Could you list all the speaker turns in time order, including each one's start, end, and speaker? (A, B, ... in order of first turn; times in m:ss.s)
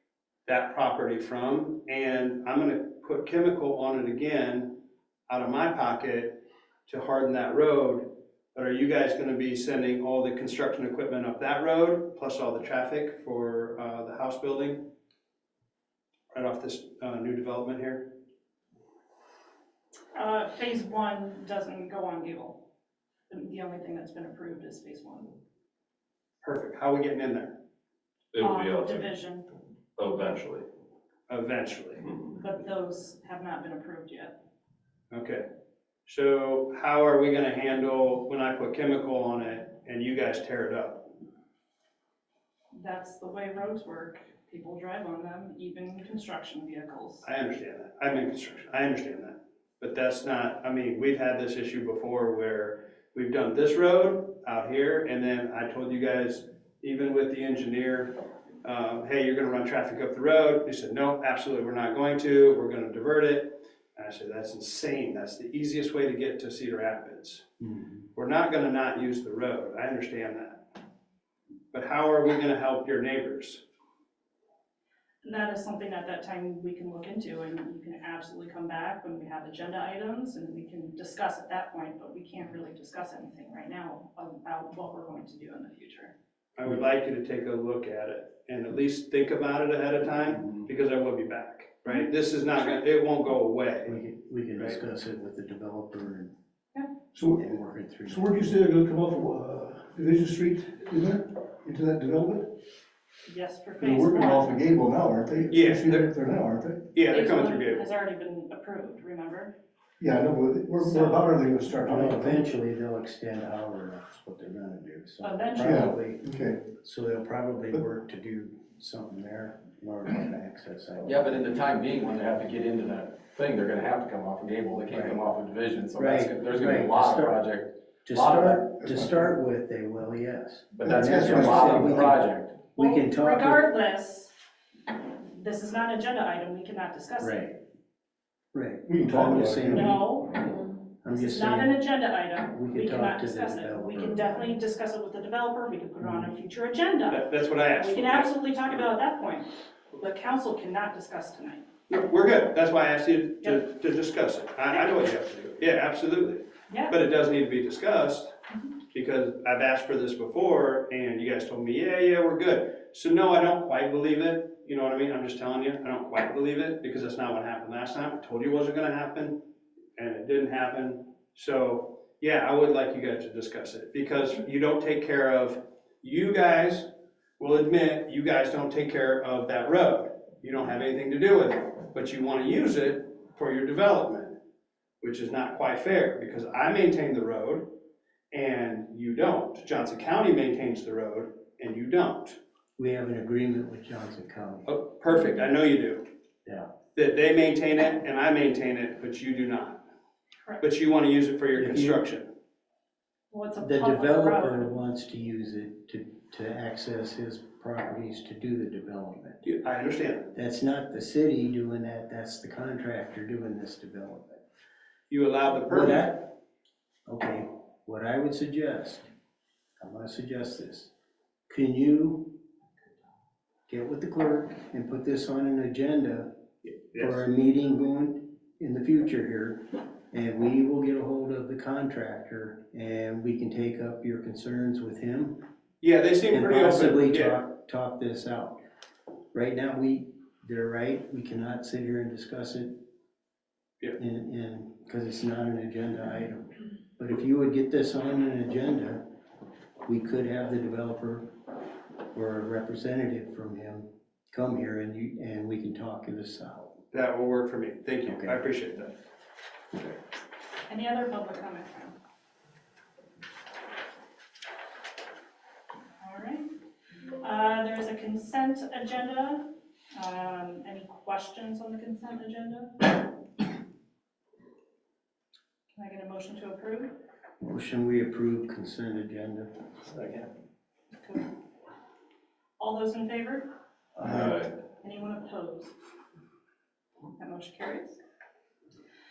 0:00.5-0:04.8 A
0:05.3-0:14.9 A
0:16.3-0:18.1 A
0:20.1-0:22.6 B
0:23.3-0:25.4 B
0:26.4-0:27.6 A
0:28.3-0:29.1 C
0:28.4-0:29.5 B
0:30.0-0:30.6 C
0:31.3-0:32.0 A
0:32.4-0:34.3 B
0:35.1-0:35.4 A
0:36.1-0:41.1 A
0:42.7-0:47.3 B
0:47.2-0:58.1 A
0:58.6-1:07.5 A
1:07.6-1:07.9 D
1:08.2-1:10.6 A
1:11.7-1:13.6 A
1:15.2-1:26.1 B
1:26.6-1:34.0 A
1:33.9-1:36.3 D
1:37.1-1:37.4 E
1:37.3-1:38.4 D
1:38.1-1:42.6 E
1:43.3-1:44.6 B
1:43.8-1:46.8 E
1:45.5-1:46.1 A
1:46.9-1:47.8 A
1:47.1-1:49.5 B
1:50.0-1:52.6 E
1:50.8-1:51.4 B
1:51.8-2:01.4 D
1:55.2-1:55.9 B
1:55.6-1:56.6 E
2:01.0-2:08.8 F
2:04.9-2:05.2 D
2:06.0-2:07.4 D
2:08.0-2:13.6 D
2:08.8-2:09.2 E
2:10.8-2:12.6 F
2:10.8-2:12.1 E
2:12.7-2:14.3 B
2:15.2-2:17.4 B
2:17.2-2:17.6 D
2:18.5-2:20.0 D
2:18.9-2:20.0 E
2:19.7-2:31.6 B
2:21.0-2:21.9 D
2:22.4-2:24.2 D
2:26.0-2:26.3 D
2:27.1-2:28.3 A
2:31.9-2:38.3 A
2:36.7-2:37.0 B
2:38.9-2:49.4 A
2:50.0-2:56.9 A
2:57.4-3:04.4 A
3:05.0-3:07.7 A
3:08.3-3:12.4 A
3:12.8-3:14.7 D
3:14.7-3:16.0 A
3:17.0-3:19.8 A
3:20.6-3:22.3 A
3:21.6-3:22.0 D
3:23.3-3:24.7 B
3:23.6-3:29.4 D
3:29.4-3:30.3 A
3:30.3-3:34.4 D
3:35.1-3:36.1 A
3:35.7-3:36.3 D
3:37.1-3:39.1 D
3:39.8-3:40.9 D
3:41.5-3:42.4 D
3:43.7-3:46.3 D
3:46.9-3:47.2 A
3:47.0-3:55.4 D
3:55.8-3:57.4 A
3:56.3-3:58.6 D
3:59.3-4:02.7 D
4:04.0-4:09.0 D
4:09.8-4:11.3 D
4:12.1-4:16.8 D
4:16.9-4:18.9 A
4:18.0-4:18.4 D
4:20.7-4:22.0 B
4:26.0-4:26.5 B
4:27.2-4:33.0 B
4:35.7-4:36.9 B
4:37.4-4:39.5 D
4:39.9-4:40.3 F
4:41.0-4:41.3 B
4:42.6-4:43.5 B
4:44.0-4:44.4 D
4:44.0-4:44.5 C
4:44.8-4:45.7 B
4:47.2-4:48.0 B